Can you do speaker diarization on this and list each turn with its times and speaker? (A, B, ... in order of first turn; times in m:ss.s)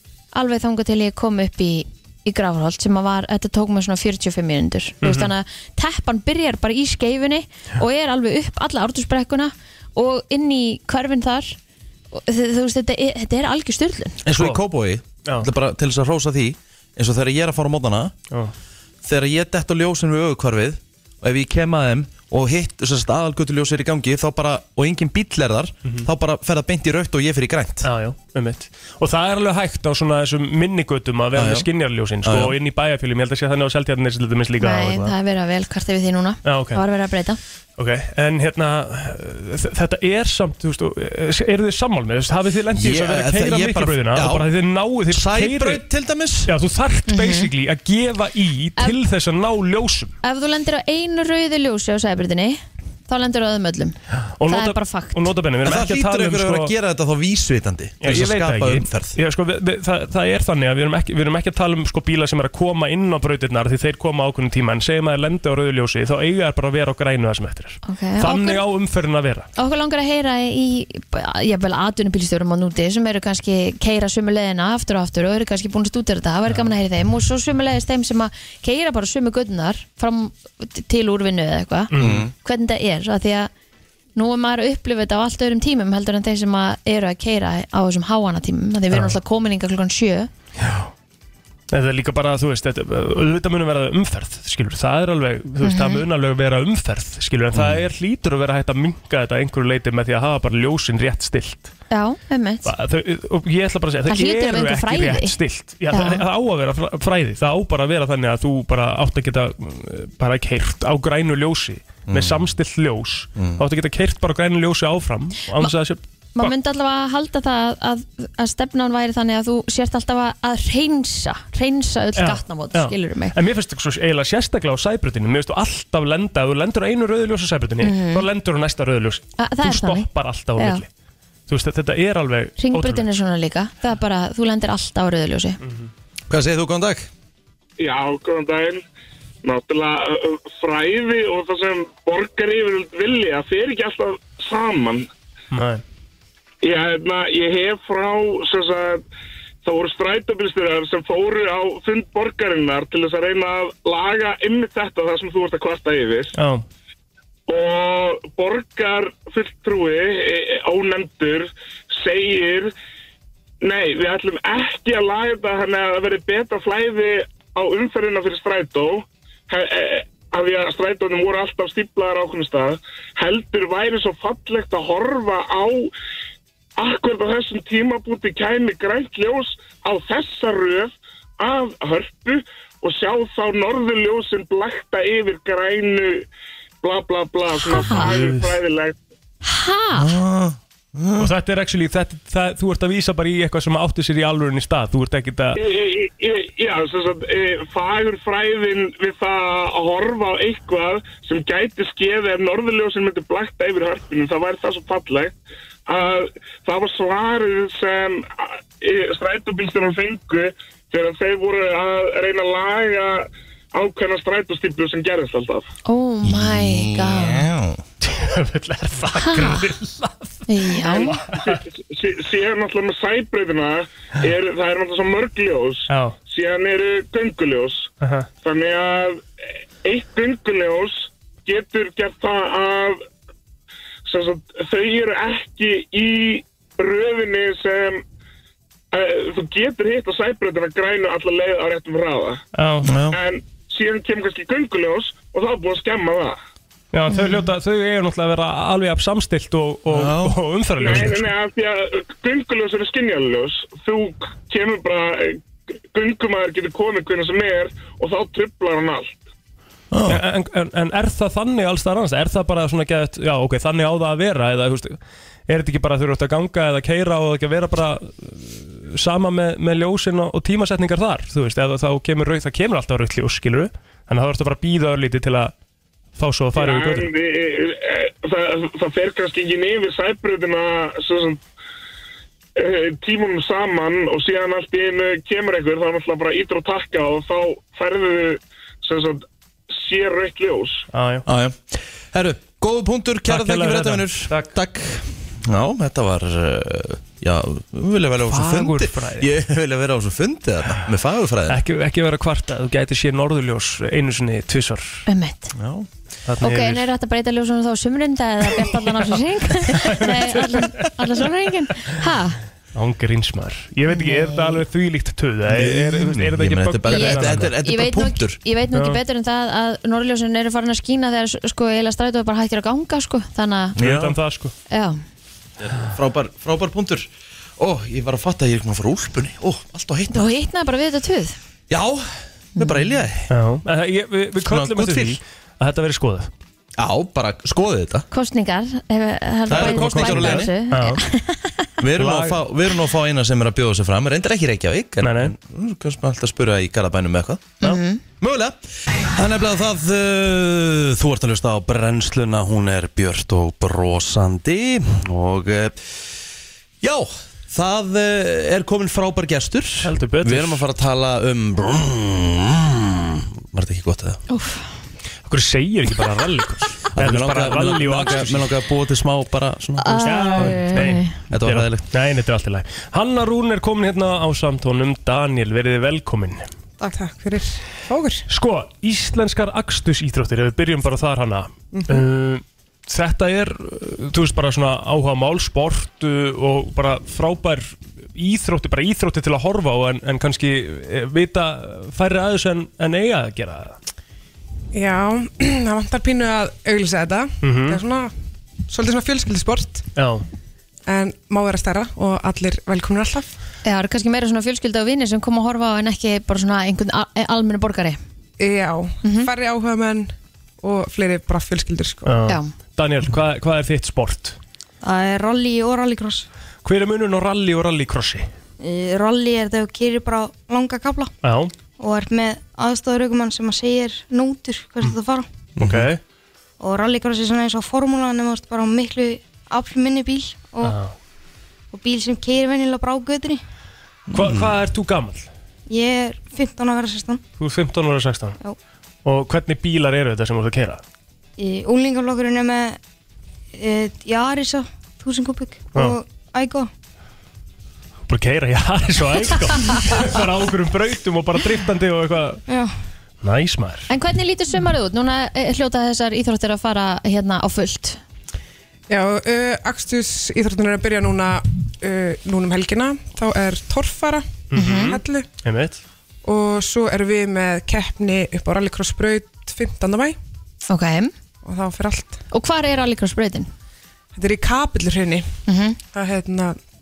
0:00.3-0:11.6 A
0:05.0-0:05.3 B
0:12.1-0:14.2 A
0:14.2-0:18.1 C
0:14.3-0:14.6 B
0:19.0-0:27.9 C
0:27.8-0:35.1 B
0:31.3-0:31.7 C
0:32.2-0:32.6 C
0:34.6-0:37.4 A
0:36.4-0:36.8 B
0:37.8-0:45.8 B
0:42.7-0:44.5 C
0:45.1-0:46.5 C
0:46.5-0:50.1 B
0:47.1-0:47.5 A
0:50.2-0:55.3 A
0:54.4-0:56.7 B
0:55.6-0:59.2 C
0:58.0-1:09.5 B
1:07.8-1:08.6 A
1:09.6-1:23.5 A
1:21.9-1:22.3 B
1:22.0-1:22.3 C
1:24.2-1:30.3 A
1:30.6-1:30.9 B
1:31.7-1:41.7 B
1:35.6-1:36.0 A
1:37.5-1:37.8 C
1:41.9-1:42.7 A
1:42.6-1:56.5 B
1:44.1-1:45.4 A
1:45.9-1:46.2 A
1:52.1-1:52.5 C
1:53.4-1:53.6 C
1:56.4-2:03.4 A
2:02.2-2:10.9 B
2:07.8-2:08.2 A
2:09.4-2:10.8 A
2:11.5-2:13.1 B
2:12.6-2:15.6 A
2:15.6-2:15.9 B
2:16.3-2:17.1 C
2:17.8-2:18.8 D
2:19.4-2:25.1 D
2:25.5-2:25.8 B
2:26.6-2:29.0 D
2:29.6-2:36.4 D
2:36.4-2:36.6 B
2:37.5-2:42.7 D
2:43.6-2:55.9 D
2:56.8-3:06.3 D
3:06.8-3:09.0 D
3:07.7-3:08.1 A
3:07.7-3:08.4 B
3:09.4-3:10.2 A
3:10.0-3:11.3 C
3:11.2-3:15.6 B
3:15.6-3:25.3 D
3:25.9-3:35.7 D
3:35.8-3:37.5 A
3:36.3-3:37.8 C
3:38.0-3:41.6 B
3:39.2-3:39.7 A
3:40.5-3:41.2 A
3:40.9-3:47.9 D
3:45.9-3:46.2 B
3:48.0-3:48.3 B
3:48.4-3:49.2 D
3:49.8-3:53.0 D
3:54.1-3:58.0 D
3:58.9-4:02.4 D
4:02.6-4:02.9 B
4:02.8-4:03.2 C
4:03.1-4:06.4 D
4:06.9-4:11.2 B
4:07.1-4:07.4 A
4:09.9-4:10.4 C
4:10.8-4:19.2 D
4:19.9-4:20.2 C
4:20.1-4:25.0 B
4:25.5-4:35.5 B
4:36.2-4:37.1 B
4:36.6-4:41.4 D
4:42.6-4:50.9 D
4:50.9-4:51.3 B
4:51.3-5:01.6 C
4:53.3-4:54.5 B
4:58.3-4:59.3 B
5:01.5-5:05.0 B
5:05.1-5:05.5 A
5:05.5-5:05.9 C
5:06.3-5:06.9 B
5:06.4-5:12.4 A
5:09.7-5:10.9 B
5:12.8-5:17.5 B
5:13.9-5:14.6 A
5:15.5-5:18.4 C
5:16.9-5:23.8 A
5:18.7-5:19.0 B
5:23.8-5:24.2 C
5:23.8-5:24.5 B
5:24.7-5:25.0 A
5:25.6-5:27.1 C
5:27.6-5:30.3 C
5:30.1-5:31.4 A
5:31.7-5:33.3 C
5:33.3-5:36.3 B
5:34.4-5:35.2 C
5:36.8-5:38.1 C
5:38.1-5:41.7 A
5:39.5-5:40.5 C
5:39.5-5:41.0 B
5:41.8-5:47.5 C
5:42.0-5:42.4 B
5:45.0-5:45.3 B
5:47.6-5:48.0 A
5:48.2-5:55.8 C
5:56.8-6:04.2 C
5:59.8-6:00.6 B
6:04.3-6:04.6 A
6:05.3-6:08.5 B
6:07.0-6:11.9 C
6:09.8-6:11.1 A
6:10.0-6:16.5 B
6:16.8-6:18.2 E
6:18.3-6:33.8 B
6:21.7-6:22.0 E
6:34.7-6:38.1 E
6:37.4-6:37.8 B
6:38.7-6:39.8 E
6:40.0-6:40.2 B
6:40.9-6:43.3 E
6:43.6-6:48.0 A
6:48.4-6:52.1 E
6:49.0-6:49.3 A
6:52.1-6:54.4 B
6:52.3-6:52.5 A
6:54.8-6:56.3 F
6:56.6-6:58.3 B
6:58.6-7:01.1 F
7:01.2-7:01.5 B
7:01.8-7:05.3 F
7:05.6-7:05.9 C
7:05.6-7:06.0 B
7:06.6-7:10.8 F
7:10.6-7:10.9 B
7:11.7-7:13.4 F
7:14.1-7:14.5 C
7:14.1-7:15.3 B
7:15.7-7:17.2 F
7:17.4-7:18.4 B
7:19.0-7:20.8 B
7:21.4-7:22.8 F
7:23.6-7:26.7 F
7:28.1-7:32.4 B
7:32.5-7:32.7 F
7:33.2-7:33.9 B
7:33.9-7:38.0 A
7:38.9-7:45.3 E
7:44.5-7:45.8 B
7:44.5-7:45.0 A
7:46.2-7:50.2 E
7:50.7-7:51.1 A
7:51.4-7:52.2 E
7:52.3-7:53.5 A
7:54.2-7:55.3 E
7:55.5-7:55.8 A
7:55.9-7:56.6 E